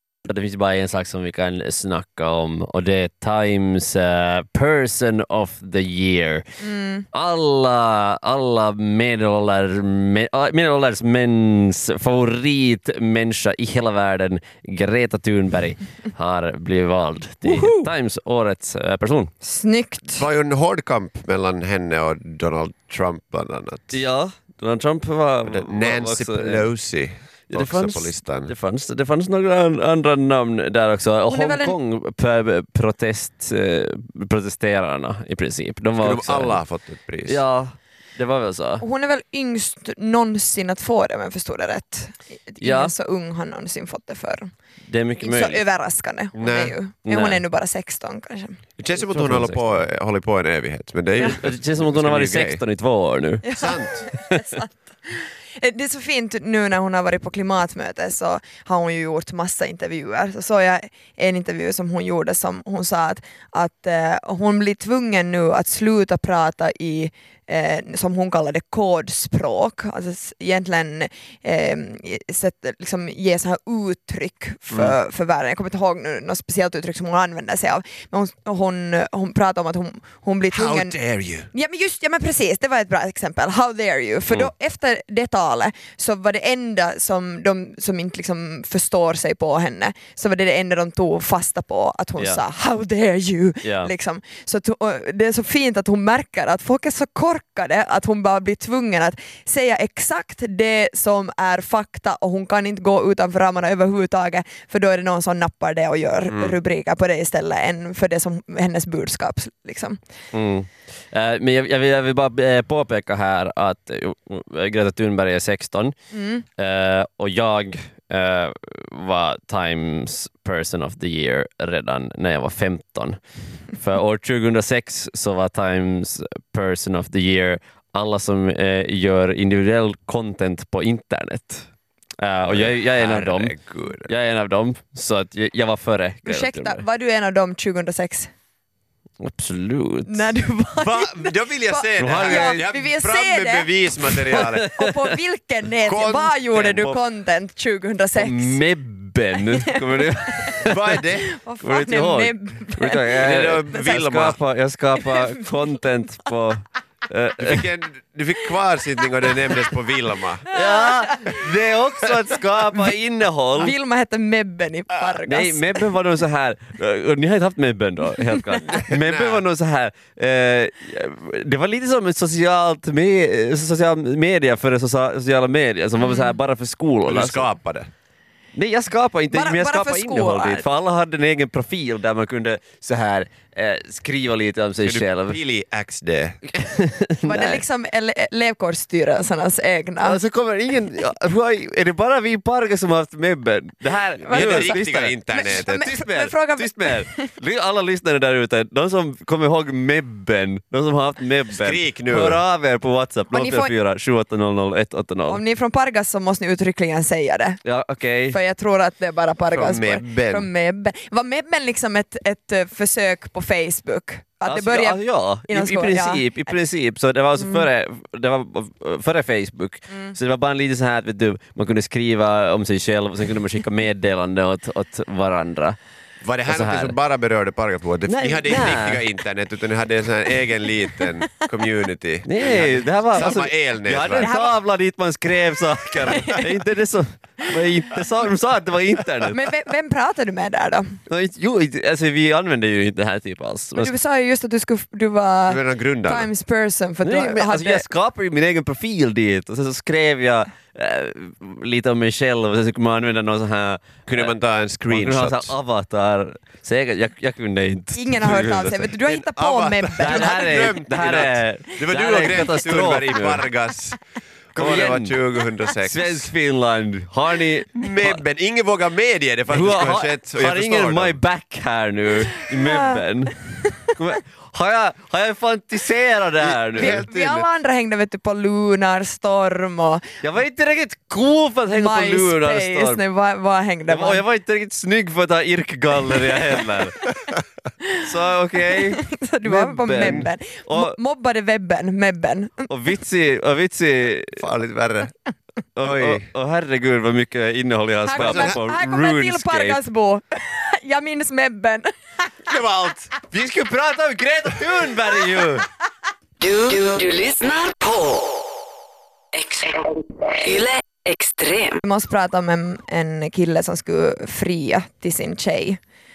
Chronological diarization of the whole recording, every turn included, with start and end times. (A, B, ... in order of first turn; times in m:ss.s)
0:00.3-0:06.4 A
0:06.6-0:07.1 B
0:07.1-0:19.3 A
0:17.4-0:17.9 B
0:19.4-0:20.3 B
0:20.1-0:24.0 C
0:23.9-0:26.7 A
0:25.5-0:28.5 C
0:27.5-0:36.6 A
0:31.3-0:31.8 B
0:36.0-0:37.4 C
0:37.2-0:38.8 A
0:38.8-0:44.5 B
0:42.6-0:42.9 A
0:44.9-0:45.6 A
0:45.2-0:48.6 B
0:46.4-0:46.8 C
0:47.0-0:47.4 A
0:48.8-0:52.6 C
0:48.9-0:49.8 A
0:51.2-0:54.6 A
0:53.4-1:21.0 B
0:53.6-0:54.1 C
1:20.5-1:21.5 C
1:21.5-1:50.0 B
1:32.2-1:32.4 A
1:33.6-1:33.9 A
1:46.3-1:46.6 C
1:50.3-1:56.0 A
1:56.1-1:56.4 B
1:56.6-2:03.2 A
2:03.8-2:11.7 A
2:12.2-2:16.8 A
2:12.4-2:14.1 C
2:16.3-2:18.3 B
2:19.2-2:20.3 A
2:20.1-2:28.6 B
2:20.8-2:24.7 C
2:22.0-2:22.6 A
2:24.3-2:24.9 A
2:25.8-2:26.9 C
2:26.6-2:26.9 A
2:28.2-2:30.8 A
2:29.6-2:30.6 B
2:30.6-2:31.3 C
2:31.2-2:33.9 B
2:31.6-2:37.6 A
2:33.2-2:34.4 C
2:35.0-2:35.8 B
2:37.4-2:40.4 C
2:40.5-2:43.8 A
2:40.5-2:41.4 B
2:43.6-2:45.8 B
2:45.3-2:57.5 A
2:48.2-2:48.9 B
2:48.8-2:49.4 C
2:56.0-2:56.4 B
2:57.1-2:57.9 C
2:58.6-3:05.4 A
2:59.3-3:00.7 B
3:04.8-3:06.4 C
3:06.6-3:07.6 A
3:07.2-3:10.2 B
3:10.0-3:25.4 A
3:14.2-3:15.9 C
3:14.2-3:17.3 B
3:21.5-3:22.4 C
3:23.3-3:23.7 B
3:25.3-3:27.6 B
3:27.6-3:28.4 A
3:28.3-3:36.6 B
3:29.5-3:30.5 C
3:34.5-3:45.8 A
3:37.4-3:37.7 B
3:46.2-3:54.3 C
3:46.4-3:47.0 A
3:48.1-3:49.0 A
3:52.2-3:59.4 A
3:54.2-3:54.6 B
3:56.1-3:56.6 B
3:59.3-4:01.0 B
4:01.1-4:03.9 A
4:03.8-4:07.8 B
4:05.5-4:06.3 C
4:07.0-4:14.4 A
4:14.1-4:15.6 C
4:14.9-4:18.9 A
4:17.9-4:20.8 B
4:19.0-4:24.0 C
4:20.0-4:23.4 A
4:24.5-4:26.3 C
4:24.6-4:25.2 A
4:25.8-4:28.2 A
4:27.8-4:31.2 C
4:29.5-4:33.4 A
4:32.5-4:33.8 B
4:33.9-4:37.0 A
4:36.4-4:37.5 C
4:36.7-4:40.0 B
4:40.2-4:43.0 A
4:41.7-4:44.2 B
4:43.9-4:47.0 A
4:48.0-4:51.0 A
4:48.7-4:52.7 B
4:50.0-4:50.3 C
4:52.7-4:54.4 A
4:54.4-4:55.1 C
4:55.8-4:59.8 A
4:55.8-4:56.3 C
4:58.1-5:01.9 B
4:58.2-4:58.6 C
5:02.5-5:03.1 C
5:03.3-5:05.7 A
5:06.4-5:08.5 D
5:09.4-5:11.8 D
5:11.8-5:15.8 B